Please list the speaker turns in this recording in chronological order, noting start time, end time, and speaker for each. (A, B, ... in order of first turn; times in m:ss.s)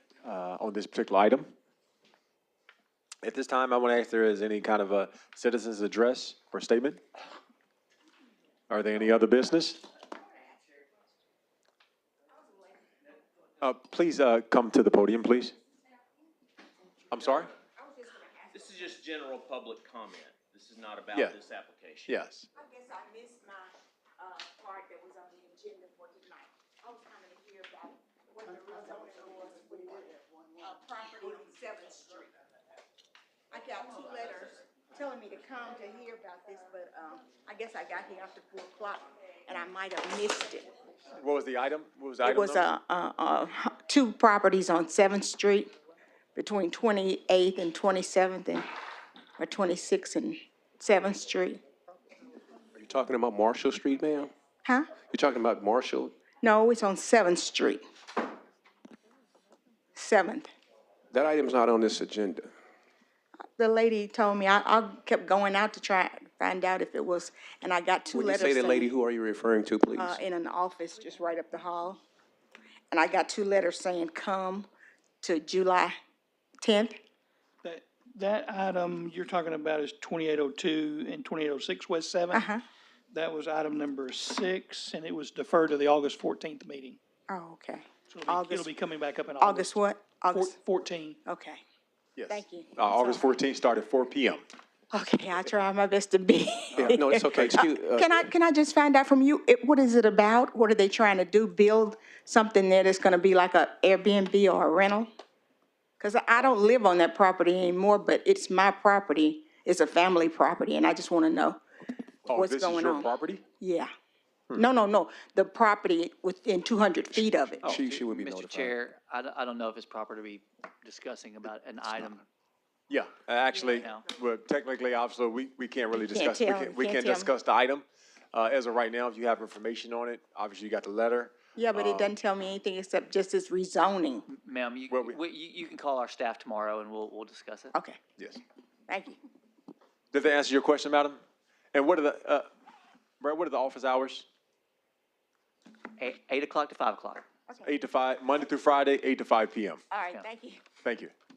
0:00.2-0:01.5 A
0:03.2-0:07.0 A
0:08.7-0:09.8 A
0:13.6-0:15.6 A
0:17.1-0:17.5 A
0:17.6-0:18.8 B
0:18.5-0:22.2 C
0:22.1-0:22.4 A
0:22.6-0:32.3 B
0:33.5-0:40.7 B
0:41.2-0:42.7 A
0:42.2-0:45.7 B
0:46.4-0:48.6 B
0:49.4-0:51.6 B
0:52.8-0:54.3 D
0:54.6-0:54.9 B
0:55.1-0:56.1 D
0:56.4-0:57.8 B
1:00.0-1:00.5 B
1:01.1-1:02.5 D
1:03.6-1:08.9 B
1:08.1-1:10.2 D
1:10.0-1:12.0 B
1:12.9-1:14.7 B
1:15.2-1:16.0 B
1:16.6-1:17.0 B
1:17.6-1:22.5 E
1:22.3-1:22.6 B
1:23.1-1:27.0 E
1:27.3-1:28.7 B
1:28.1-1:29.8 E
1:29.4-1:30.5 B
1:30.3-1:31.2 E
1:31.2-1:31.6 B
1:32.2-1:34.4 A
1:32.3-1:33.4 B
1:34.9-1:45.1 B
1:36.8-1:37.6 A
1:36.8-1:38.3 D
1:46.0-1:51.6 B
1:52.3-1:53.4 A
1:52.3-1:53.1 B
1:53.6-1:53.9 B
1:54.6-1:57.7 B
1:57.6-1:58.8 D
1:57.6-2:02.3 F
2:02.9-2:12.1 A
2:03.6-2:04.1 F
2:05.9-2:07.3 B
2:11.6-2:14.2 B
2:14.3-2:17.7 F
2:14.9-2:15.2 A
2:17.7-2:18.0 B
2:18.9-2:19.2 B
2:20.1-2:21.2 A
2:21.7-2:22.5 A
2:23.2-2:24.3 A
2:26.0-2:27.2 F
2:27.6-2:29.8 A
2:29.9-2:30.6 B
2:30.8-2:31.1 A